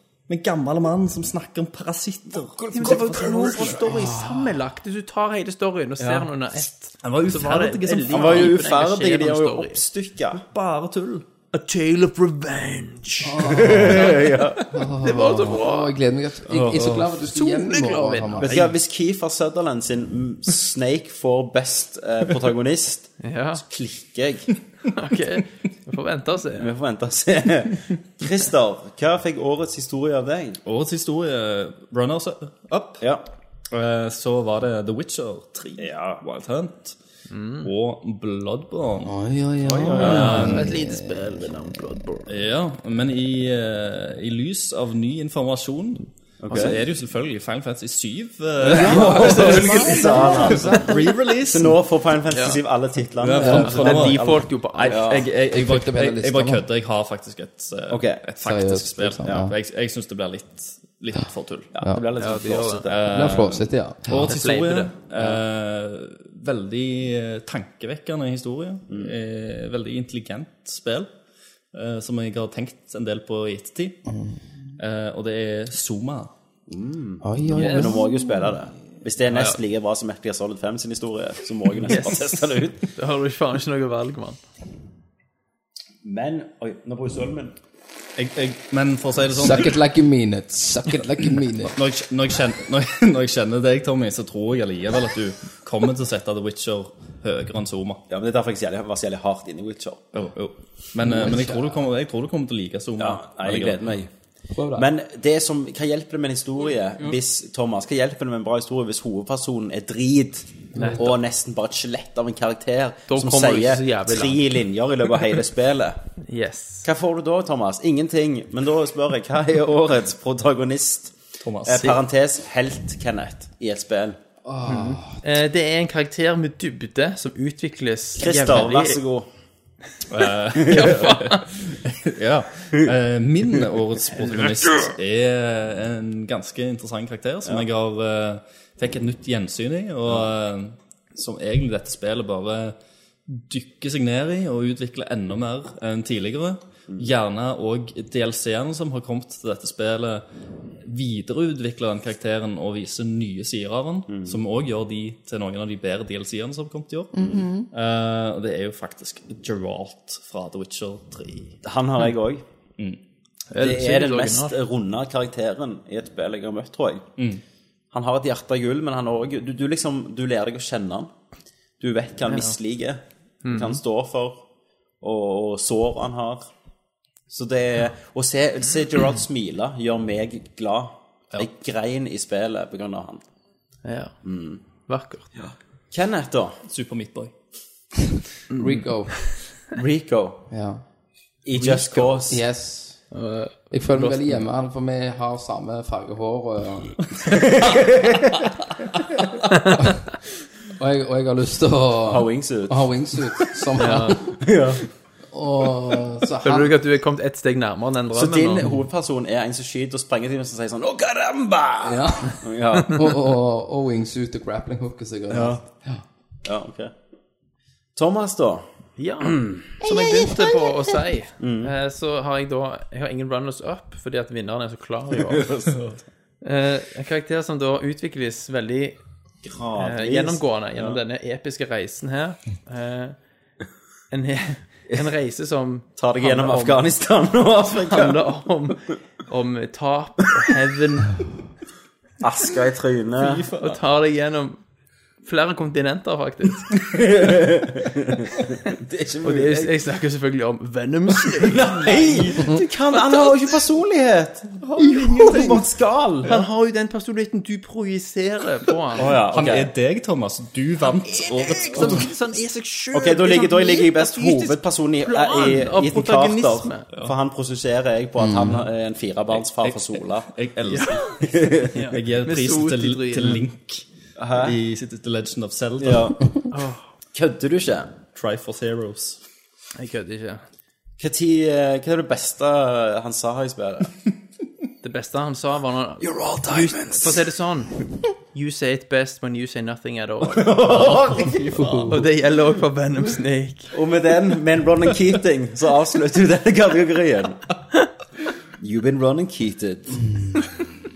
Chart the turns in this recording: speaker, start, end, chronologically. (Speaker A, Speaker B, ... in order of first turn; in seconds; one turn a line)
Speaker A: 0.3-4.0
Speaker B: 2.4-4.1
Speaker C: 2.8-9.8
Speaker D: 3.8-4.5
Speaker B: 6.0-6.3
Speaker A: 7.0-8.6
Speaker B: 8.1-10.4
Speaker A: 10.4-11.3
Speaker C: 11.5-14.3
Speaker D: 13.2-14.2
Speaker B: 13.4-14.7
Speaker D: 14.7-18.6
Speaker C: 15.0-15.9
Speaker A: 16.6-17.1
Speaker C: 17.1-18.7
Speaker B: 18.4-24.5
Speaker C: 23.2-23.6
Speaker C: 24.9-26.7
Speaker B: 26.6-30.6
Speaker A: 30.6-33.0
Speaker A: 33.7-37.0
Speaker B: 35.8-36.2
Speaker C: 37.3-37.7
Speaker A: 37.6-39.1
Speaker D: 39.0-41.1
Speaker B: 39.6-40.6
Speaker A: 39.9-40.8
Speaker C: 40.0-42.3
Speaker A: 42.2-51.8
Speaker B: 46.4-46.8
Speaker D: 48.6-51.0
Speaker B: 48.7-55.3
Speaker C: 48.9-50.6
Speaker C: 52.3-52.6
Speaker A: 53.2-61.7
Speaker C: 53.4-55.2
Speaker D: 53.4-53.6
Speaker D: 55.5-56.6
Speaker B: 57.9-58.2
Speaker D: 58.4-59.5
Speaker B: 61.7-63.1
Speaker C: 62.1-62.9
Speaker A: 62.8-71.1
Speaker D: 63.0-64.3
Speaker C: 64.3-64.9
Speaker A: 71.7-74.0
Speaker A: 74.8-76.3
Speaker B: 76.7-82.9
Speaker D: 77.2-78.1
Speaker C: 77.6-78.0
Speaker C: 79.3-79.6
Speaker C: 81.8-84.4
Speaker B: 86.0-87.6
Speaker A: 88.2-89.8
Speaker D: 89.3-91.7
Speaker A: 91.7-98.0
Speaker B: 98.1-100.0
Speaker A: 100.1-103.8
Speaker D: 101.0-101.8
Speaker B: 103.0-104.1
Speaker D: 104.5-104.9
Speaker B: 104.7-116.0
Speaker D: 110.7-111.0
Speaker C: 110.8-111.1
Speaker C: 113.1-114.5
Speaker C: 116.3-116.8
Speaker B: 116.8-124.2
Speaker A: 121.4-122.0
Speaker D: 124.4-125.2
Speaker C: 124.7-129.0
Speaker B: 128.2-129.3
Speaker A: 130.1-150.2
Speaker B: 130.7-131.0
Speaker C: 130.7-131.5
Speaker A: 150.8-161.6
Speaker B: 154.1-154.4
Speaker D: 157.1-157.7
Speaker B: 161.6-162.4
Speaker C: 163.5-164.6
Speaker B: 163.6-167.1
Speaker A: 167.2-167.4
Speaker B: 167.9-171.1
Speaker B: 171.8-174.4
Speaker C: 172.3-172.6
Speaker C: 173.4-173.8
Speaker B: 175.0-176.5
Speaker B: 177.3-183.2
Speaker C: 183.8-184.2
Speaker B: 184.2-184.6
Speaker C: 184.8-185.3
Speaker B: 185.3-186.6
Speaker A: 186.7-187.3
Speaker D: 188.5-189.2
Speaker B: 189.7-190.4
Speaker D: 190.5-190.8
Speaker B: 191.4-192.4
Speaker A: 191.6-192.0
Speaker D: 192.3-193.1
Speaker C: 193.1-194.2
Speaker D: 193.7-196.9
Speaker B: 197.2-198.4
Speaker A: 199.2-199.4
Speaker D: 200.8-204.4
Speaker B: 202.0-202.9
Speaker C: 203.8-204.2
Speaker B: 204.3-204.9
Speaker D: 205.3-206.7
Speaker C: 206.4-208.8
Speaker B: 208.1-213.2
Speaker D: 211.8-216.0
Speaker B: 215.3-215.6
Speaker B: 216.4-216.9
Speaker B: 217.9-218.7
Speaker C: 219.0-225.5
Speaker B: 219.2-219.8
Speaker B: 221.4-221.7
Speaker B: 225.2-226.0
Speaker C: 226.4-229.0
Speaker B: 229.4-231.0
Speaker C: 229.8-233.2
Speaker C: 234.1-236.8
Speaker B: 236.0-238.2
Speaker C: 237.7-241.2
Speaker B: 242.2-243.5
Speaker A: 243.3-243.6
Speaker C: 243.6-244.6
Speaker C: 245.2-246.8
Speaker B: 246.8-249.7
Speaker C: 249.2-253.6
Speaker B: 251.2-256.5
Speaker C: 254.8-255.6
Speaker C: 256.2-259.1
Speaker B: 258.9-259.7
Speaker A: 259.2-262.1
Speaker C: 261.0-266.9
Speaker B: 262.9-270.3
Speaker D: 268.2-268.6
Speaker A: 269.3-271.2
Speaker C: 270.7-271.1
Speaker B: 271.2-271.8
Speaker C: 271.7-273.4
Speaker A: 271.9-276.1
Speaker B: 274.2-274.6
Speaker B: 275.8-276.2
Speaker C: 276.5-276.8
Speaker B: 277.1-277.9
Speaker A: 278.1-279.2
Speaker C: 279.8-280.4
Speaker B: 281.0-283.9
Speaker C: 284.8-291.0
Speaker B: 286.0-287.3
Speaker B: 290.2-292.0
Speaker D: 291.4-292.0
Speaker C: 291.9-293.7
Speaker B: 293.7-297.5
Speaker B: 298.6-300.2